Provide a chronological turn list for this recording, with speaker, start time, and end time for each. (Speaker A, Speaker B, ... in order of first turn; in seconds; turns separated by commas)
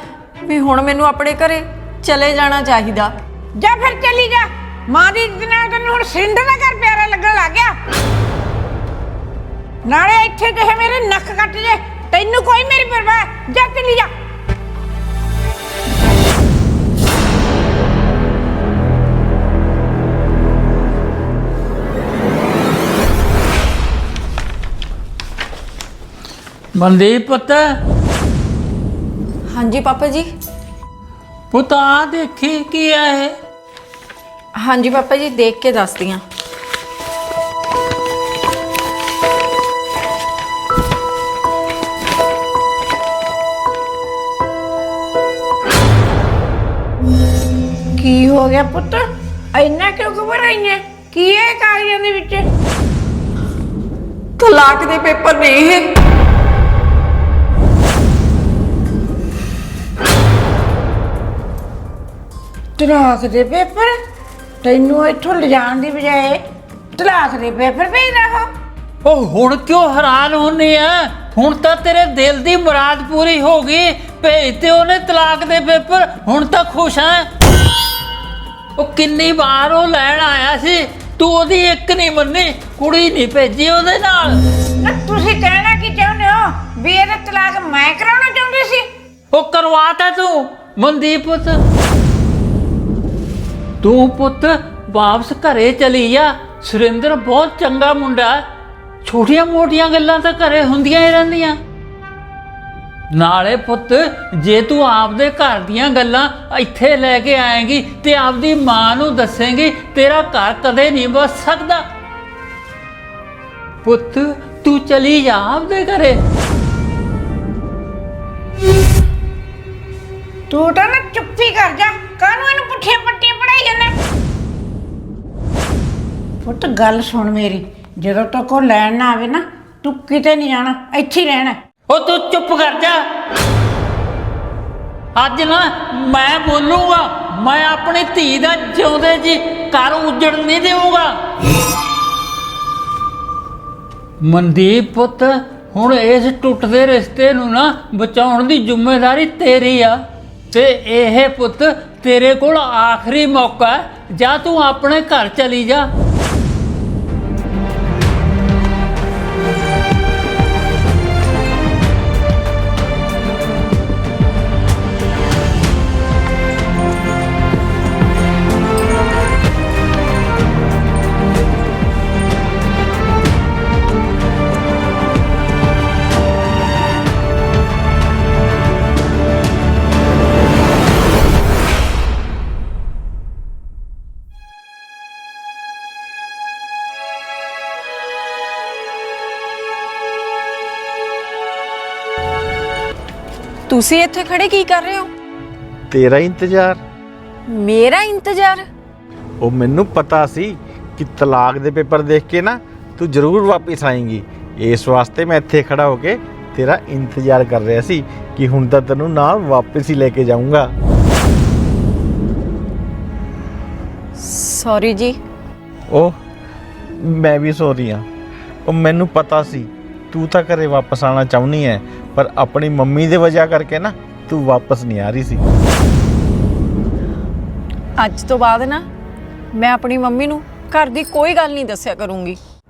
Speaker A: 0.4-3.1, Speaker B: 3.5-7.8, Speaker B: 9.8-14.1, Speaker C: 26.8-27.8, Speaker A: 29.5-30.3, Speaker C: 31.5-33.4, Speaker A: 34.6-36.2, Speaker B: 48.0-52.5, Speaker A: 54.4-55.9, Speaker B: 62.8-64.0, Speaker B: 64.6-66.4, Speaker B: 67.0-68.5, Speaker C: 69.0-77.3, Speaker C: 78.8-84.4, Speaker B: 84.8-88.9, Speaker C: 89.3-91.6, Speaker C: 93.8-98.4, Speaker C: 99.0-101.6, Speaker C: 103.1-111.9, Speaker C: 113.8-116.2, Speaker B: 120.5-124.0, Speaker B: 126.4-131.6, Speaker C: 131.9-133.0, Speaker C: 135.2-141.2, Speaker C: 144.2-150.0, Speaker C: 150.5-155.9, Speaker A: 193.7-195.1, Speaker D: 195.9-196.8, Speaker A: 197.5-198.7, Speaker D: 199.4-210.7, Speaker A: 214.2-215.2, Speaker D: 215.9-216.2, Speaker D: 216.9-218.1, Speaker D: 218.7-225.4, Speaker A: 228.0-228.8, Speaker A: 229.5-232.4